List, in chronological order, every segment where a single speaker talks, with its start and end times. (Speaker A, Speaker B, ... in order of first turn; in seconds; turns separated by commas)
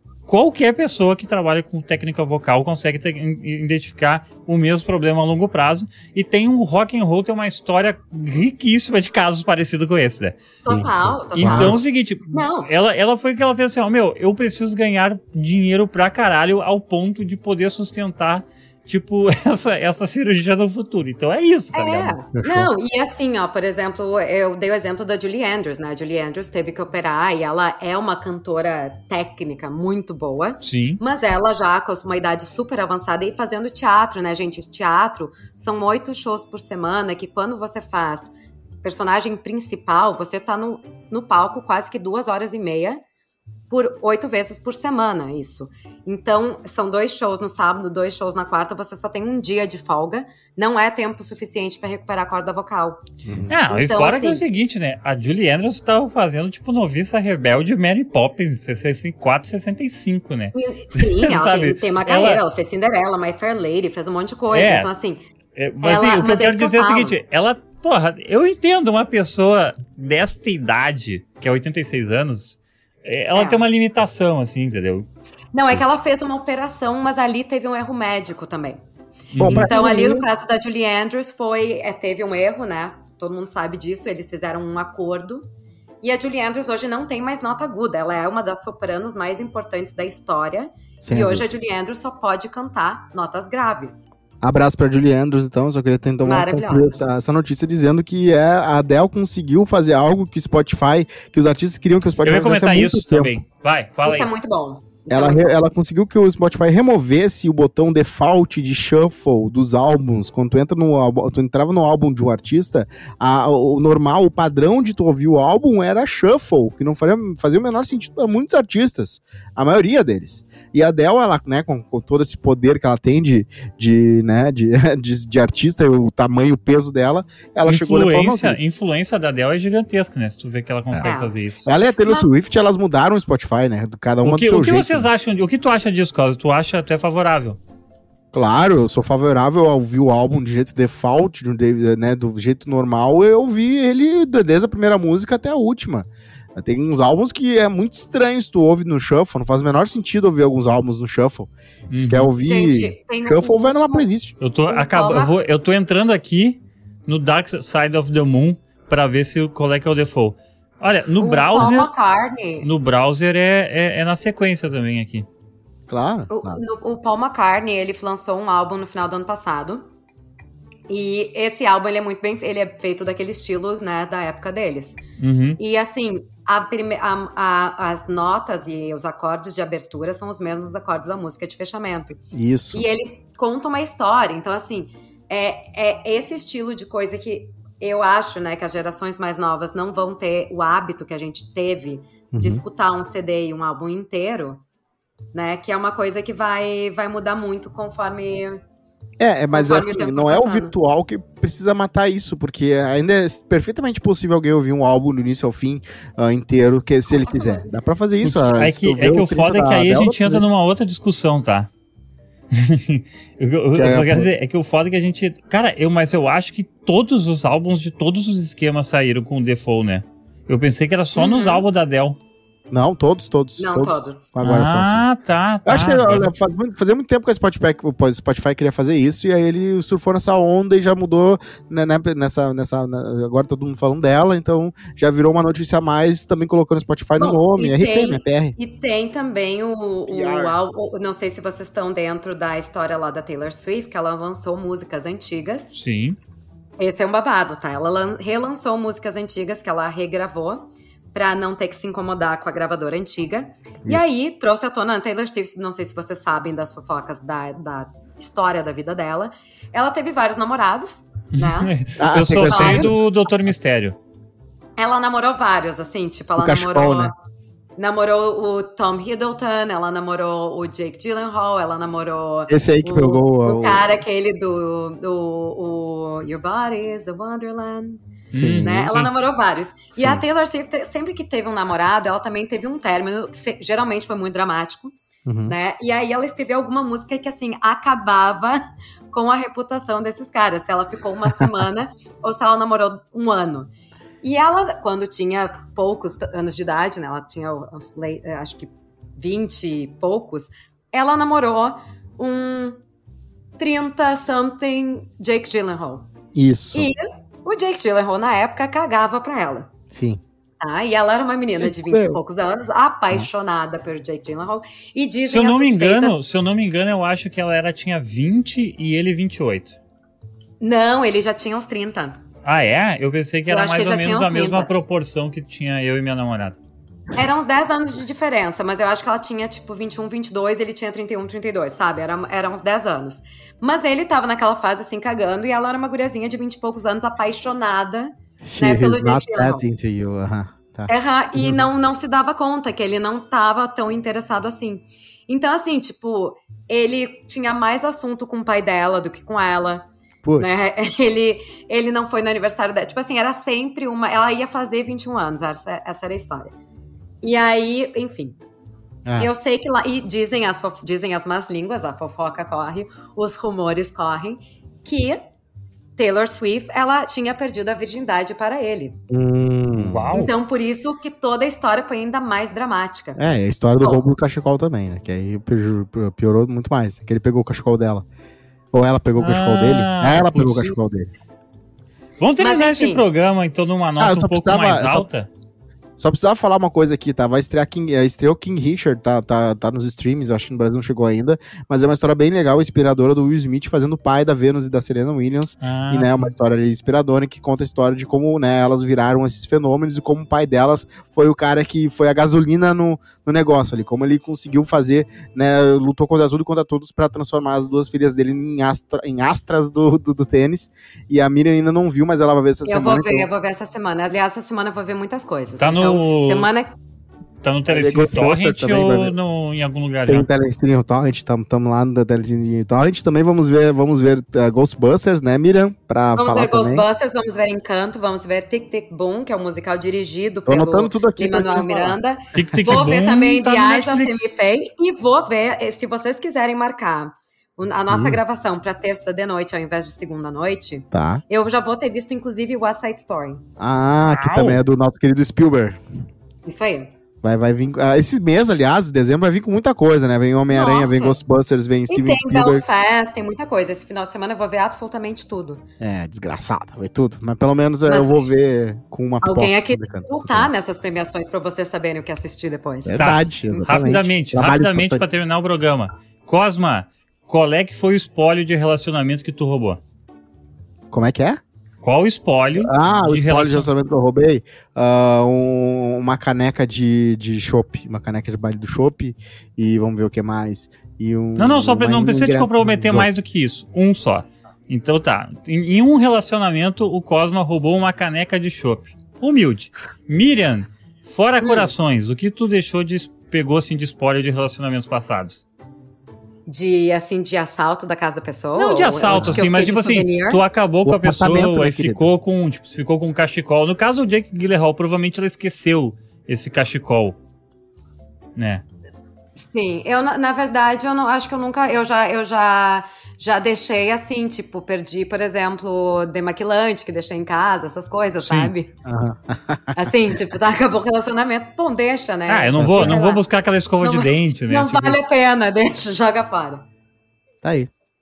Speaker A: 0.3-10.4, Speaker B: 10.6-12.7, Speaker C: 10.7-11.8, Speaker A: 11.3-22.2, Speaker B: 21.7-38.3, Speaker C: 22.3-22.7, Speaker A: 30.6-31.0, Speaker B: 38.8-43.0, Speaker B: 43.7-53.0, Speaker C: 53.2-53.5, Speaker A: 53.5-62.4, Speaker B: 53.7-54.4, Speaker B: 60.5-65.2, Speaker A: 64.5-64.9, Speaker A: 65.5-75.1, Speaker B: 65.8-67.2, Speaker B: 73.3-73.6, Speaker B: 75.5-78.8, Speaker A: 79.3-79.9, Speaker C: 79.4-80.2, Speaker B: 79.4-85.5, Speaker B: 86.0-94.1, Speaker C: 91.0-91.4, Speaker C: 94.4-103.3, Speaker B: 96.2-97.0, Speaker A: 102.2-104.3, Speaker B: 104.0-105.6, Speaker C: 105.1-128.6, Speaker A: 127.7-131.6, Speaker B: 131.0-131.4, Speaker C: 131.7-135.1, Speaker B: 132.0-132.3, Speaker A: 134.2-137.6, Speaker C: 138.3-154.3, Speaker A: 151.9-152.3, Speaker B: 152.4-154.1, Speaker A: 154.4-161.9, Speaker B: 154.7-155.3, Speaker B: 161.2-162.7, Speaker A: 162.6-165.3, Speaker C: 165.9-166.6, Speaker B: 166.3-169.8, Speaker B: 170.9-175.0, Speaker A: 175.2-175.6, Speaker B: 175.6-182.2, Speaker C: 182.3-182.8, Speaker B: 182.7-194.6, Speaker C: 192.3-192.6, Speaker B: 195.3-198.6, Speaker C: 199.2-210.4, Speaker B: 199.5-200.7, Speaker B: 207.1-207.7, Speaker A: 208.2-211.7, Speaker A: 212.5-222.2, Speaker C: 213.7-214.3, Speaker B: 221.1-221.6, Speaker C: 222.7-225.0, Speaker B: 223.6-224.3, Speaker A: 224.4-226.3, Speaker C: 225.6-238.6, Speaker B: 237.2-245.8, Speaker C: 240.1-240.6, Speaker A: 245.7-246.2, Speaker B: 246.8-261.7, Speaker A: 261.4-264.0, Speaker C: 262.0-263.0, Speaker B: 262.4-263.0, Speaker B: 264.8-267.1, Speaker C: 266.4-267.1, Speaker B: 267.8-284.9, Speaker C: 272.5-273.9, Speaker A: 278.3-279.1, Speaker C: 278.3-278.8, Speaker C: 279.9-280.2, Speaker C: 285.2-285.5, Speaker B: 285.4-293.7, Speaker B: 294.2-302.8, Speaker B: 303.6-306.1, Speaker C: 306.3-306.9, Speaker B: 306.7-309.7, Speaker C: 309.9-310.2, Speaker B: 310.6-316.2, Speaker C: 311.6-312.2, Speaker A: 315.3-319.7, Speaker B: 320.6-322.2, Speaker A: 322.4-326.6, Speaker B: 323.5-324.7, Speaker B: 327.1-339.6, Speaker C: 338.4-341.6, Speaker B: 340.9-349.8, Speaker C: 350.2-350.5, Speaker B: 350.4-356.5, Speaker B: 357.2-358.4, Speaker C: 359.1-359.3, Speaker B: 359.2-365.2, Speaker B: 366.0-369.0, Speaker C: 369.1-370.1, Speaker A: 369.8-370.3, Speaker B: 370.1-373.2, Speaker C: 373.1-378.1, Speaker B: 373.8-374.1, Speaker C: 378.7-381.1, Speaker A: 379.2-380.8, Speaker A: 382.2-385.3, Speaker B: 382.4-383.0, Speaker C: 384.0-385.1, Speaker C: 386.0-413.3, Speaker A: 395.6-396.3, Speaker B: 412.6-416.7, Speaker A: 415.6-416.5, Speaker A: 417.4-420.3, Speaker C: 417.7-419.1, Speaker C: 420.1-426.9, Speaker B: 426.1-443.4, Speaker C: 430.5-432.0, Speaker A: 432.3-434.3, Speaker C: 437.9-438.2, Speaker C: 440.9-441.2, Speaker C: 443.6-445.8, Speaker A: 444.1-444.6, Speaker B: 446.4-446.9, Speaker C: 447.2-452.6, Speaker B: 450.5-451.2, Speaker B: 451.9-455.6, Speaker C: 455.8-460.5, Speaker B: 457.9-458.2, Speaker B: 459.2-463.9, Speaker C: 462.8-465.0, Speaker A: 463.0-469.8, Speaker C: 470.9-471.4, Speaker A: 471.8-473.7, Speaker C: 472.6-483.1, Speaker A: 481.4-495.4, Speaker B: 491.4-491.7, Speaker B: 496.5-500.4, Speaker A: 498.5-507.2, Speaker C: 499.1-499.4, Speaker C: 500.8-502.1, Speaker A: 508.4-508.6, Speaker B: 509.4-518.7, Speaker A: 518.2-518.5, Speaker C: 518.8-519.8, Speaker B: 519.8-523.2, Speaker A: 522.3-525.0, Speaker C: 522.6-523.0, Speaker B: 523.8-526.6, Speaker C: 527.4-527.7